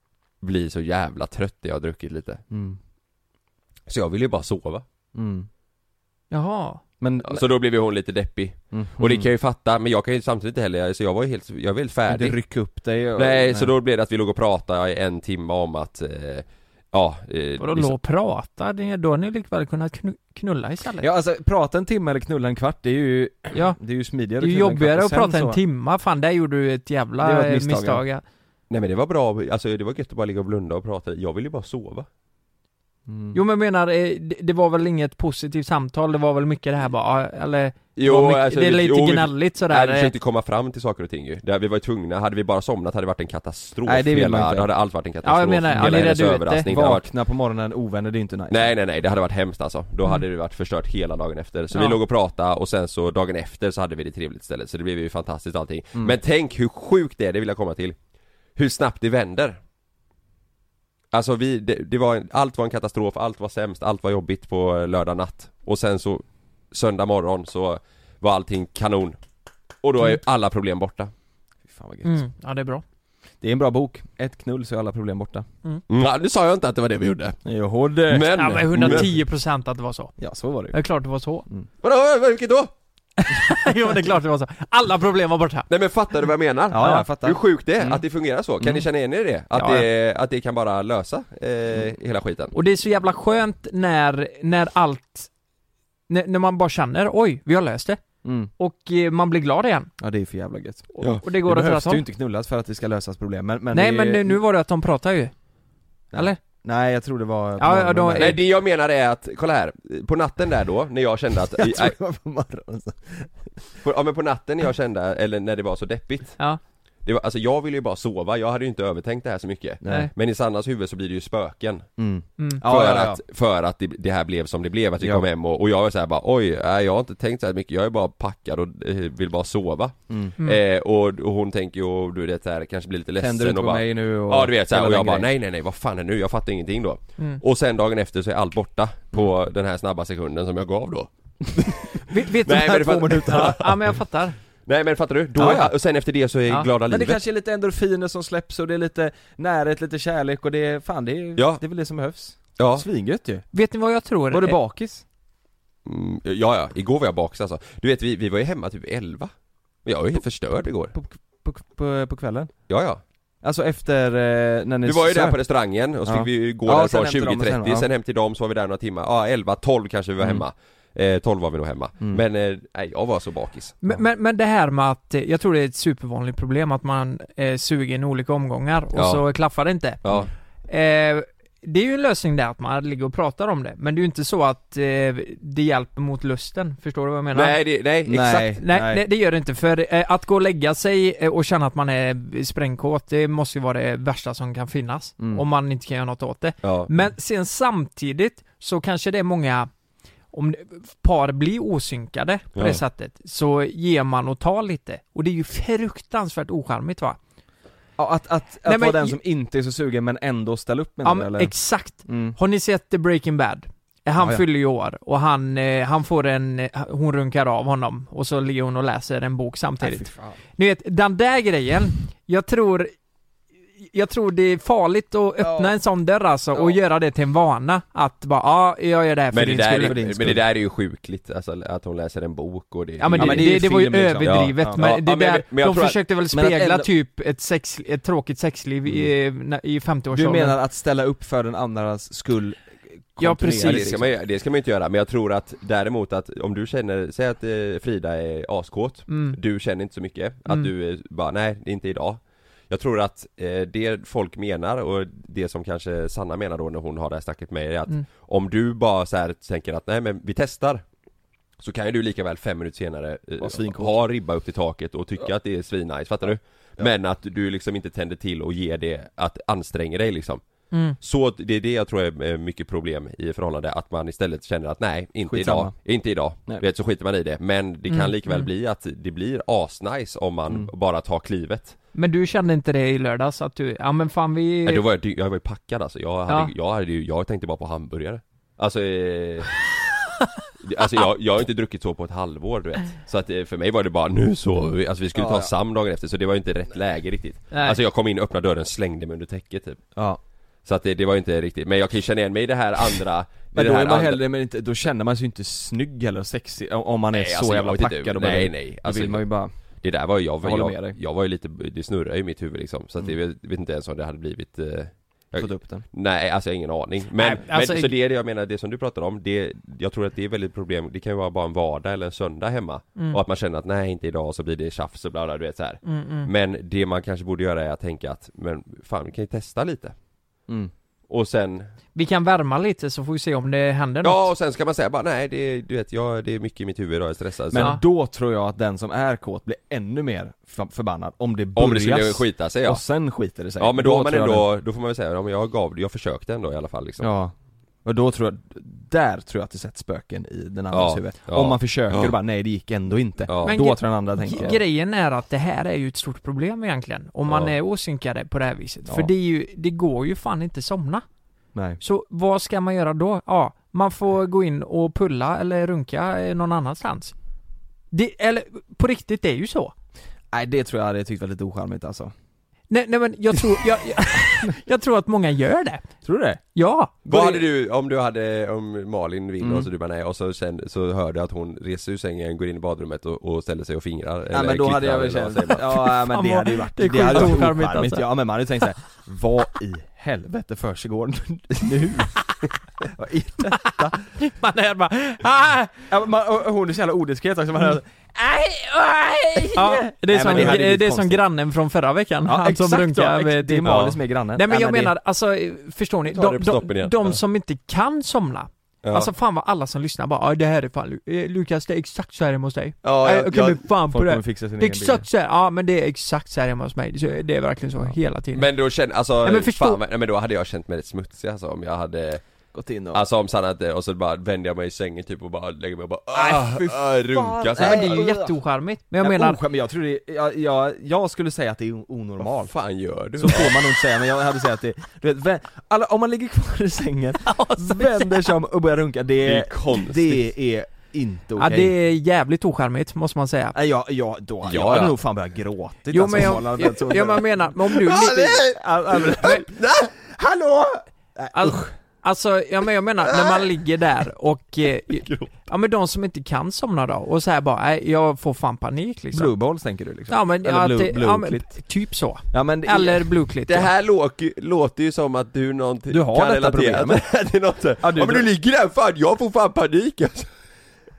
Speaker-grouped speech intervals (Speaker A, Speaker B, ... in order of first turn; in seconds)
Speaker A: 0.4-2.4, 3.9-4.8, 7.2-12.4, 13.2-17.9, 28.7-32.1, 38.0-47.1, 48.5-58.0, 58.5-59.6, 61.1-69.2, 69.8-71.1, 75.9-77.4, 78.1-79.1, 81.8-82.7, 85.7-92.5, 108.2-112.0, 113.8-116.4, 117.0-121.9, 122.6-143.7, 144.7-147.2, 151.3-151.6, 152.6-152.8, 155.8-159.3, 159.8-160.9, 162.7-163.0, 164.8-173.7, 178.9-179.2, 180.0-180.3, 187.3-188.6, 196.6-196.9, 202.5-202.8, 229.3-233.6, 234.2-236.0, 243.6-260.8, 261.6-270.4, 271.0-281.8, 284.6-289.5, 290.6-299.8, 300.6-304.2, 307.1-309.3, 309.8-329.9, 331.1-331.7, 334.0-337.8, 341.6-342.8, 343.6-347.1, 350.7-352.1, 353.3-353.6, 357.3-357.5, 377.1-385.8, 403.6-403.9, 406.1-407.2, 408.8-409.1, 412.8-413.6, 418.3-422.2, 422.9-428.0, 432.4-433.6, 439.2-440.3, 444.4-444.9, 447.8-449.9, 463.5-470.3
Speaker B: 2.5-2.8, 5.1-5.5, 7.0-7.5, 8.7-9.3, 12.1-13.7, 21.0-25.6, 27.2-28.0, 33.1-33.4, 43.9-44.7, 45.7-48.7, 71.7-72.2, 73.4-75.5, 77.4-79.2, 80.2-80.8, 86.7-88.0, 98.2-98.5, 100.0-104.4, 106.1-108.4, 111.5-113.6, 119.8-120.1, 122.0-123.2, 125.0-125.2, 130.1-130.3, 133.2-135.3, 142.5-143.7, 145.3-145.7, 146.8-153.4, 154.3-155.0, 160.9-162.5, 163.4-165.4, 166.0-167.9, 188.1-189.0, 195.2-195.4, 208.0-211.5, 212.1-212.3, 214.2-214.4, 219.8-220.4, 225.4-225.7, 229.8-230.4, 233.1-234.8, 236.3-236.9, 240.1-244.1, 263.4-264.0, 275.2-275.7, 295.1-295.5, 299.9-300.2, 303.5-309.5, 310.4-311.0, 315.4-315.8, 337.5-344.5, 347.0-354.6, 361.5-361.8, 370.3-372.1, 376.0-376.4, 379.4-379.7, 384.3-392.2, 392.8-394.0, 395.9-401.2, 402.2-404.9, 413.9-415.1, 422.5-423.0, 426.1-428.4, 429.0-432.5, 433.2-441.7, 443.5-451.7, 459.1-461.6, 462.3-463.1, 465.9-467.0, 467.8-468.3
Speaker C: 6.3-6.8, 17.6-21.1, 23.5-28.2, 33.3-40.1, 45.2-46.7, 51.7-52.0, 72.0-72.8, 78.3-81.5, 83.2-85.7, 86.8-87.0, 89.5-89.8, 92.5-95.3, 96.1-98.0, 98.6-99.9, 100.9-102.0, 103.7-105.3, 106.1-106.4, 107.6-108.4, 142.1-144.4, 153.5-154.6, 173.8-180.0, 180.7-187.6, 188.6-199.7, 200.3-207.2, 208.6-209.2, 211.0-222.9, 223.8-230.0, 233.0-240.6, 243.2-243.9, 249.1-249.4, 270.7-271.0, 277.9-278.5, 281.9-284.8, 297.5-297.8, 317.2-317.9, 325.8-326.3, 331.9-334.3, 353.4-361.0, 361.8-367.1, 367.9-369.7, 372.7-376.0, 376.5-377.4, 385.9-388.1, 393.5-395.9, 399.4-418.5, 419.2-419.8, 427.6-429.4, 437.2-438.2, 441.4-443.6, 445.9-448.4, 451.3-459.3, 460.1-463.7